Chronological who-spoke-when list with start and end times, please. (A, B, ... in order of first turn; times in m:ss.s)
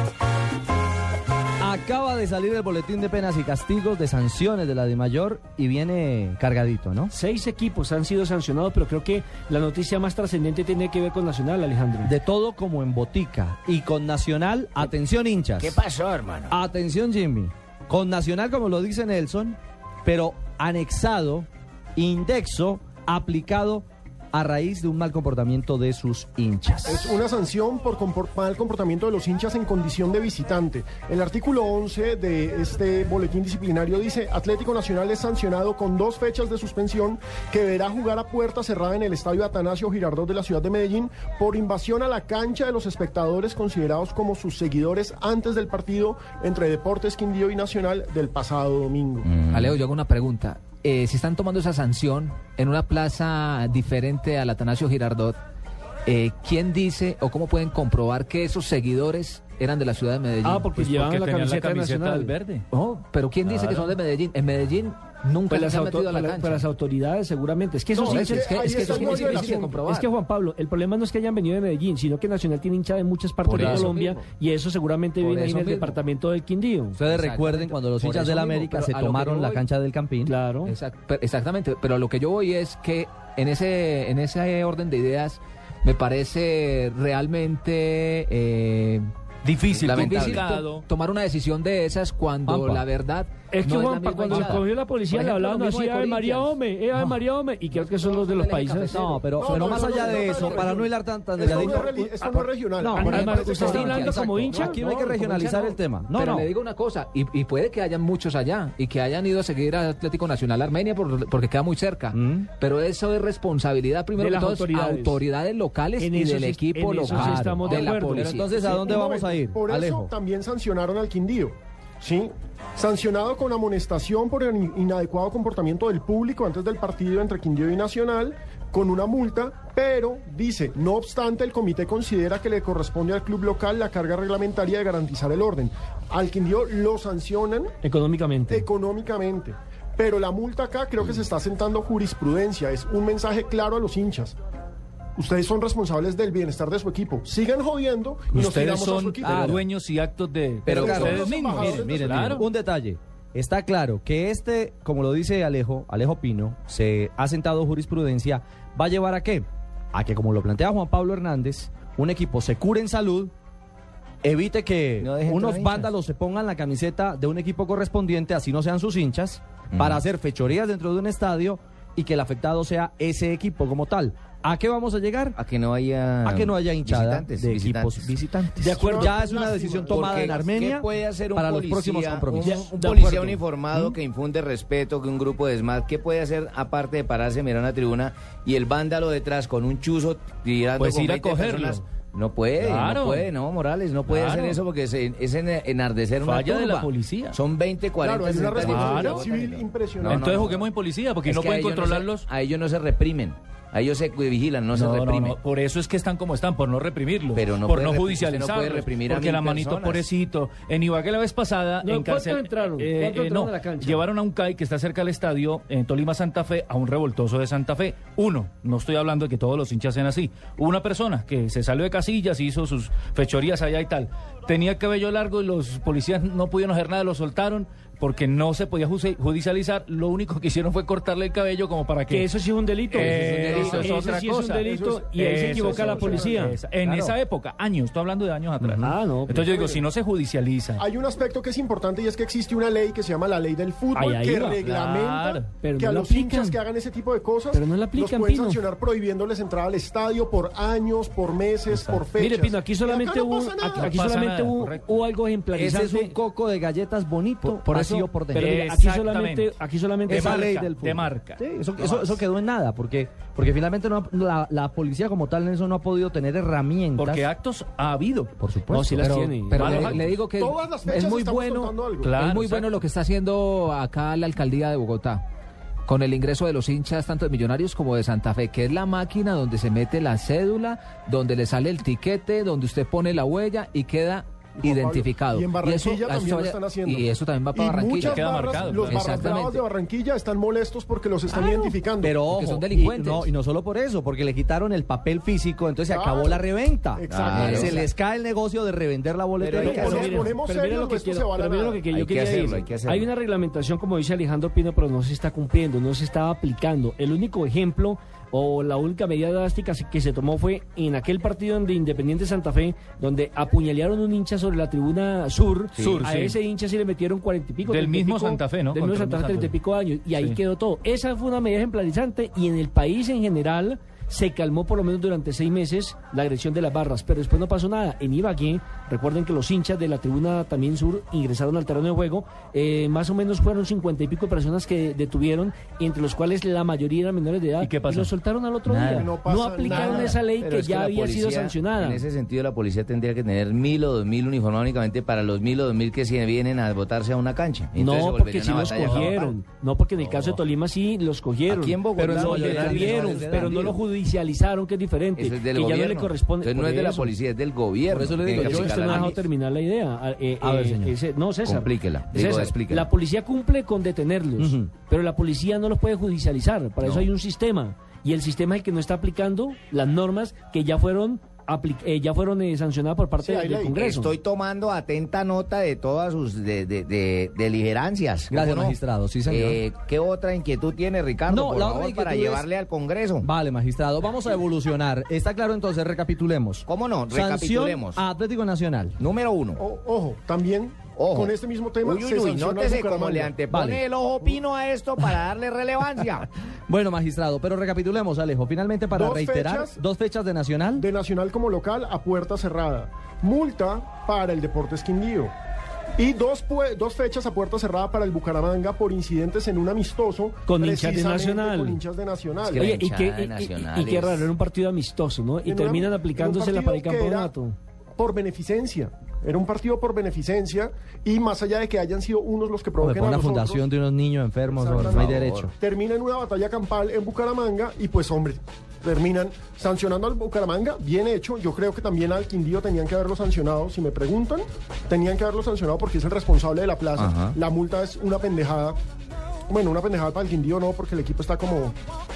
0:01.6-0:07.1 A
0:07.1-0:12.1 B
0:12.0-0:15.8 A
0:15.6-0:16.6 C
0:16.5-0:27.2 A
0:26.8-0:49.3 D
0:49.2-0:49.8 C
0:49.4-0:55.4 E
0:56.0-1:00.7 E
1:00.4-1:02.3 B
1:00.8-1:02.6 F
1:02.7-1:06.6 E
1:03.5-1:03.9 F
1:05.5-1:17.0 B
1:07.9-1:09.8 D
1:08.0-1:10.1 E
1:13.5-1:14.2 D
1:13.6-1:13.8 E
1:13.6-1:13.8 F
1:15.2-1:16.0 E
1:17.0-1:20.3 A
1:17.0-1:19.6 E
1:20.2-1:20.7 B
1:20.6-1:29.0 E
1:29.4-1:30.8 F
1:29.7-1:30.5 C
1:29.9-1:34.6 E
1:32.5-1:32.8 A
1:33.5-1:39.1 B
1:34.3-1:37.2 A
1:35.2-1:36.2 E
1:37.7-1:40.5 E
1:38.9-1:46.5 A
1:39.4-1:44.7 D
1:41.5-1:42.1 B
1:43.0-1:45.2 B
1:43.0-1:58.5 E
1:52.1-1:52.5 A
1:54.2-1:55.2 B
1:56.0-1:58.3 B
1:57.1-2:00.1 A
1:58.5-2:17.7 D
2:17.8-2:18.6 B
2:18.5-2:24.4 D
2:25.2-2:29.6 D
2:28.3-2:32.4 F
2:29.2-2:29.6 A
2:30.6-2:32.4 D
2:30.6-2:43.3 A
2:44.2-2:55.4 A
2:45.0-2:45.9 C
2:49.7-2:50.0 C
2:55.4-2:58.6 C
2:56.2-3:02.7 A
2:58.6-2:59.1 B
2:58.6-3:00.6 D
2:59.8-3:20.7 C
3:02.4-3:03.4 B
3:10.8-3:11.8 F
3:12.6-3:13.3 F
3:14.1-3:14.6 F
3:16.2-3:17.4 F
3:18.0-3:20.6 D
3:18.6-3:19.2 F
3:20.0-3:22.2 F
3:21.2-3:25.4 C
3:24.7-3:52.3 F
3:27.3-3:30.1 C
3:31.8-3:34.0 B
3:52.1-3:57.1 B
3:52.9-4:00.8 F
3:53.0-3:54.0 D
3:53.1-3:53.4 E
3:54.6-3:56.6 D
3:58.6-3:59.5 B
3:59.4-3:59.8 D
4:00.8-4:14.1 D
4:03.9-4:04.6 B
4:04.6-4:05.5 F
4:05.6-4:06.6 B
4:07.5-4:08.6 B
4:11.7-4:12.0 F
4:12.2-4:16.2 B
4:13.8-4:14.9 F
4:15.5-4:18.6 A
4:17.4-4:20.5 B
4:18.3-4:19.5 F
4:20.1-4:22.0 F
4:20.1-4:27.3 A
4:27.0-4:28.3 F
4:28.4-4:29.1 A
4:28.7-4:30.0 B
4:29.0-4:35.2 E
4:29.5-4:30.0 F
4:30.4-4:32.1 D
4:32.0-4:32.7 F
4:35.8-4:49.6 E
4:44.6-4:52.2 D
4:48.0-4:49.3 F
4:51.4-4:51.7 E
4:52.0-5:00.2 A
4:52.2-4:53.3 E
4:55.9-4:56.4 D
4:56.9-4:57.8 D
4:57.0-4:57.9 C
4:57.3-4:57.8 E
4:59.4-5:00.2 C
4:59.6-5:42.0 B
4:59.7-5:01.8 D
5:01.9-5:03.1 C
5:15.7-5:16.0 C
5:15.8-5:16.4 F
5:17.6-5:19.5 F
5:37.6-5:38.1 F
5:38.7-5:39.1 F
5:38.9-5:40.2 D
5:39.6-5:49.0 C
5:47.8-5:57.1 B
5:48.8-5:49.2 F
5:50.0-5:50.4 F
5:51.5-5:53.2 C
5:52.0-5:53.8 A
5:53.2-5:53.6 F
5:55.2-5:59.2 C
5:57.9-5:59.2 A
5:58.3-6:14.2 B
6:00.4-6:00.9 A
6:01.4-6:02.9 C
6:04.4-6:04.7 A
6:06.8-6:07.1 C
6:13.2-6:13.8 D
6:13.7-6:23.3 C
6:18.3-6:19.6 A
6:21.3-6:22.4 A
6:23.2-6:29.0 A
6:26.6-6:28.0 C
6:29.0-6:29.6 C
6:29.6-6:33.4 D
6:30.9-6:36.3 C
6:33.5-6:33.8 A
6:36.7-6:40.8 A
6:38.9-6:39.8 D
6:40.8-6:45.3 D
6:46.0-6:52.7 D
6:50.4-6:51.8 B
6:52.4-6:54.3 C
6:52.6-6:57.6 B
6:55.4-6:57.3 D
6:58.0-7:03.6 D
7:02.8-7:05.5 A
7:04.5-7:18.8 D
7:04.8-7:05.5 C
7:17.0-7:17.4 C
7:19.5-7:21.8 D